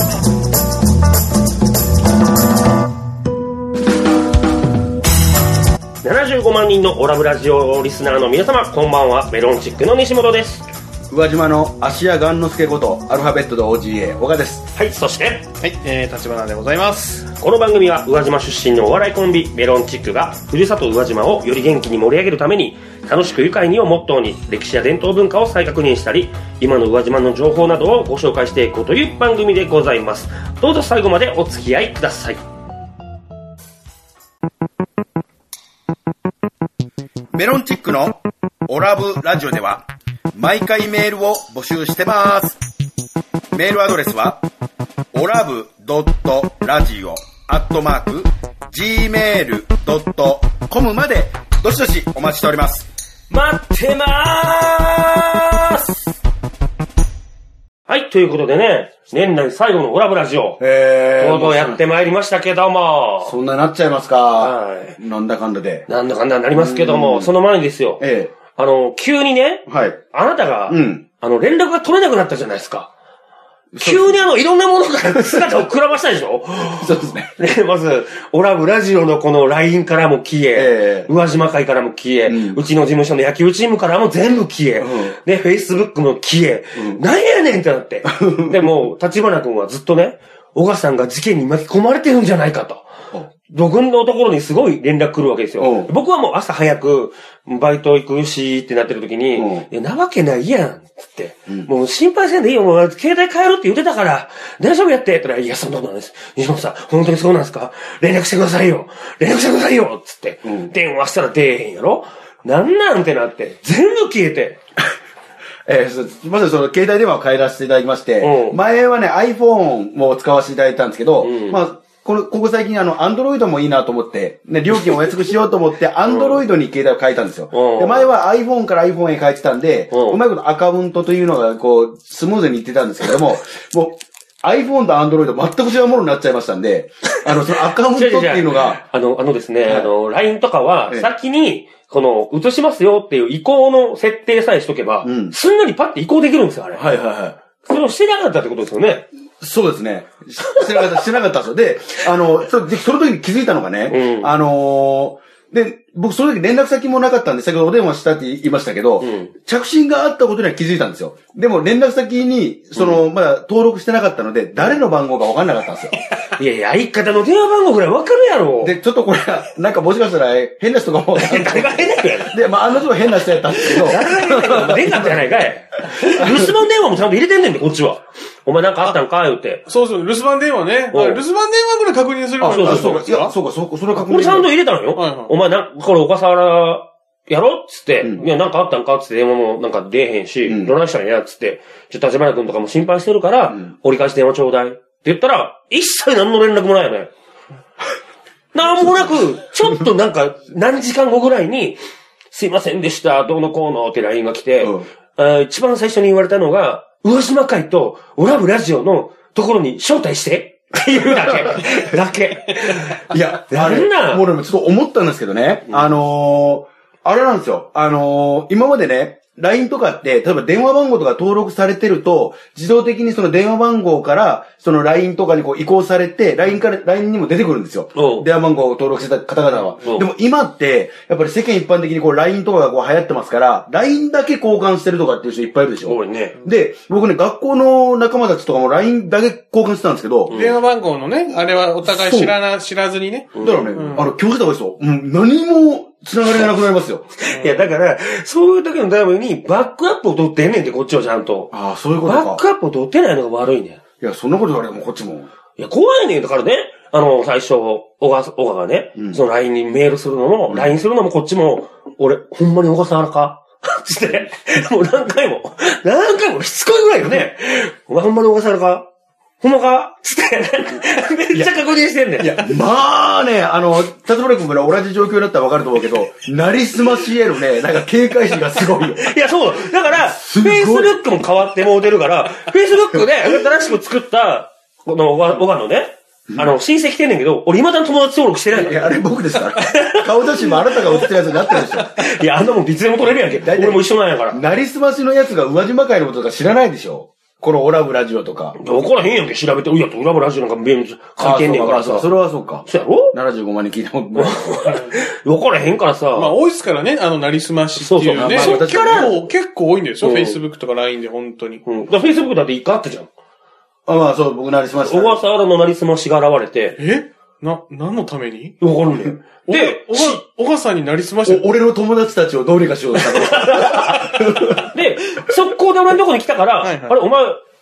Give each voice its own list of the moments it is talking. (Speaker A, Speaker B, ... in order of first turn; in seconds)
Speaker A: 6.0-10.7, 14.8-15.5, 17.4-32.4, 53.3-55.8, 57.9-60.6, 61.2-63.3, 64.4-65.0, 65.9-72.9, 73.8-92.9, 93.5-114.6, 118.2-118.6, 121.2-121.6, 126.1-126.4, 127.5-128.1, 129.9-130.2, 137.9-146.8, 147.6-149.1, 153.9-154.3, 159.0-159.3, 166.3-168.8, 171.2-172.4, 173.6-179.6, 180.9-181.2, 182.4-183.1, 183.9-197.1, 198.5-214.3, 227.9-228.3, 229.8-230.1, 235.8-236.4, 240.3-240.6, 243.3-244.0, 247.2-251.5, 252.1-253.8, 255.6-268.9, 269.4-272.5, 279.0-289.0, 289.6-290.1, 291.5-294.4, 298.6-302.1, 302.7-303.2, 304.2-306.4, 307.8-309.3, 310.0-310.4, 311.6-313.1, 314.8-316.8, 318.6-320.2, 323.1-327.4
Speaker B: 11.1-14.7, 37.3-42.6, 43.5-44.4, 45.1-52.9, 60.6-61.8, 63.2-65.9, 66.5-67.3, 68.0-68.3, 69.7-70.0, 70.7-71.0, 73.7-74.2, 75.2-75.6, 76.8-77.3, 80.5-81.1, 82.3-82.6, 84.8-85.2, 88.0-88.8, 95.6-95.9, 99.4-99.7, 110.5-110.7, 115.7-138.8, 145.0-145.3, 146.8-147.4, 149.4-165.9, 168.6-175.3, 176.0-176.5, 182.4-184.5, 190.5-190.7, 204.6-204.9, 210.9-211.8, 213.1-240.3, 241.8-242.4, 243.4-247.1, 251.5-252.4, 254.0-255.3, 260.5-260.7, 272.2-279.1, 279.9-281.0, 288.5-292.1, 293.3-298.6, 301.2-304.5, 308.2-309.1, 313.9-315.2, 321.2-324.7
Speaker C: 15.6-17.3, 179.7-183.3, 185.0-185.3, 240.3-244.1, 247.3-247.7, 304.7-304.9, 306.1-311.6, 316.8-318.6, 319.5-321.5, 326.6-327.0